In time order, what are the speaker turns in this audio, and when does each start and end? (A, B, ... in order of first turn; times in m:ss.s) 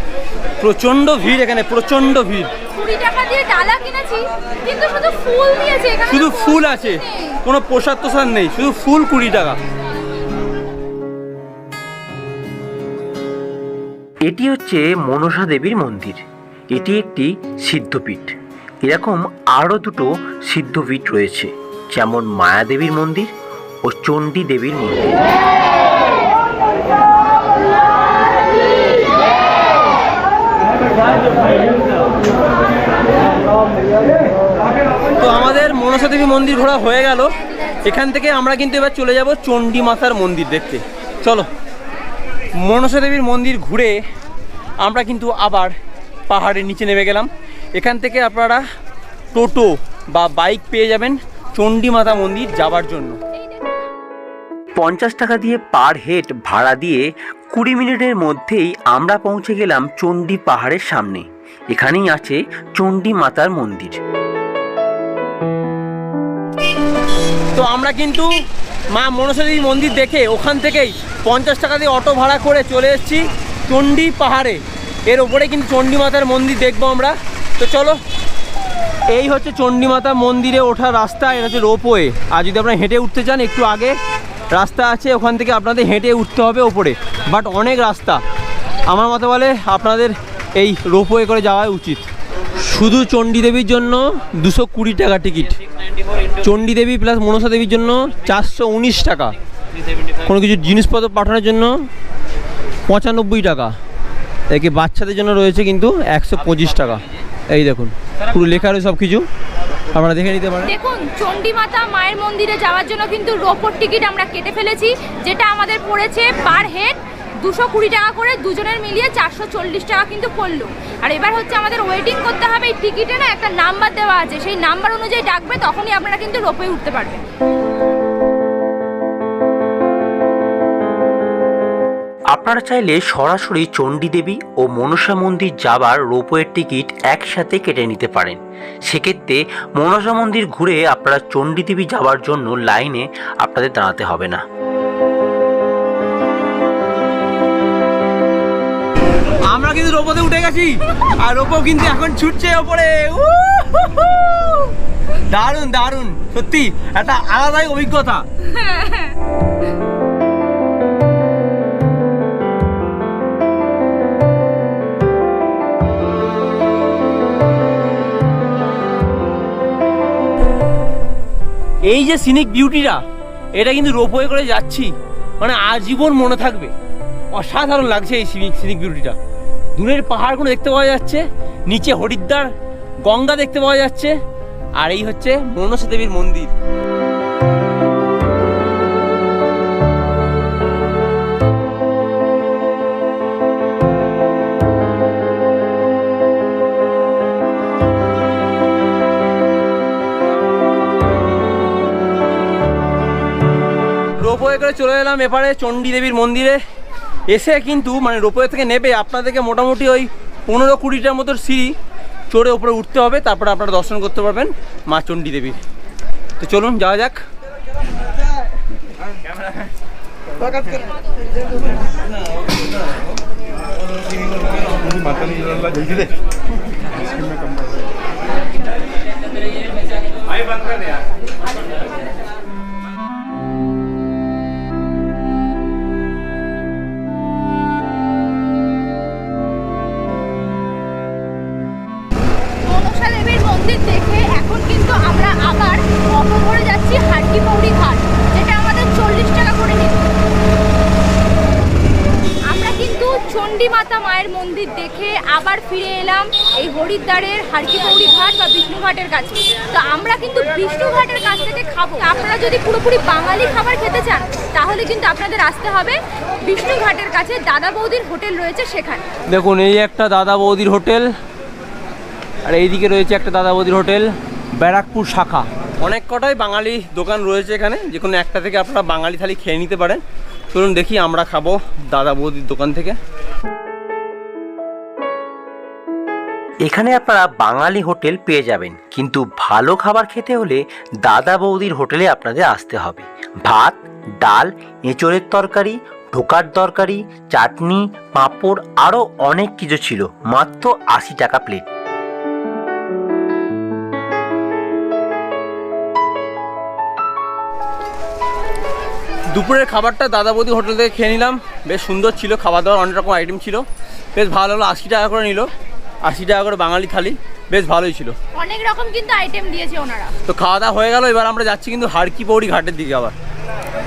0:00.6-0:02.5 A
0:02.7-0:07.3 B
0:06.1-0:09.6 A
0:14.2-0:23.3 C
0:23.8-0:25.0 C
0:35.2-0:41.5 A
0:42.5-0:44.0 A
0:44.8-0:45.7 A
0:46.3-0:48.6 A
0:49.3-0:53.2 A
0:54.8-1:04.0 C
1:07.5-1:08.3 A
1:08.9-1:18.0 A
1:19.1-1:24.0 A
1:24.5-1:28.2 A
1:28.9-1:35.6 A
1:36.4-1:39.3 A
1:40.2-1:41.9 A
1:42.9-1:43.8 A
1:44.5-1:49.3 A
1:49.9-1:50.7 A
1:50.6-2:07.2 B
2:12.3-2:24.4 C
2:29.5-2:34.7 A
2:35.3-2:38.2 A
2:38.5-2:39.1 B
2:51.8-2:53.0 A
2:53.5-2:56.7 A
2:57.3-2:59.2 A
2:59.8-3:02.5 A
3:03.0-3:04.2 A
3:04.8-3:06.5 A
3:24.2-3:26.6 A
3:27.3-3:31.7 A
3:32.3-3:35.6 A
3:36.4-3:37.2 A
4:02.6-4:10.1 B
4:12.5-4:29.0 B
4:29.3-4:31.1 A
4:32.4-4:43.0 A
4:46.6-5:01.6 C
5:09.3-5:13.6 A
5:14.1-5:15.5 A
5:16.0-5:18.1 A
5:18.4-5:20.1 B
5:20.2-5:23.1 A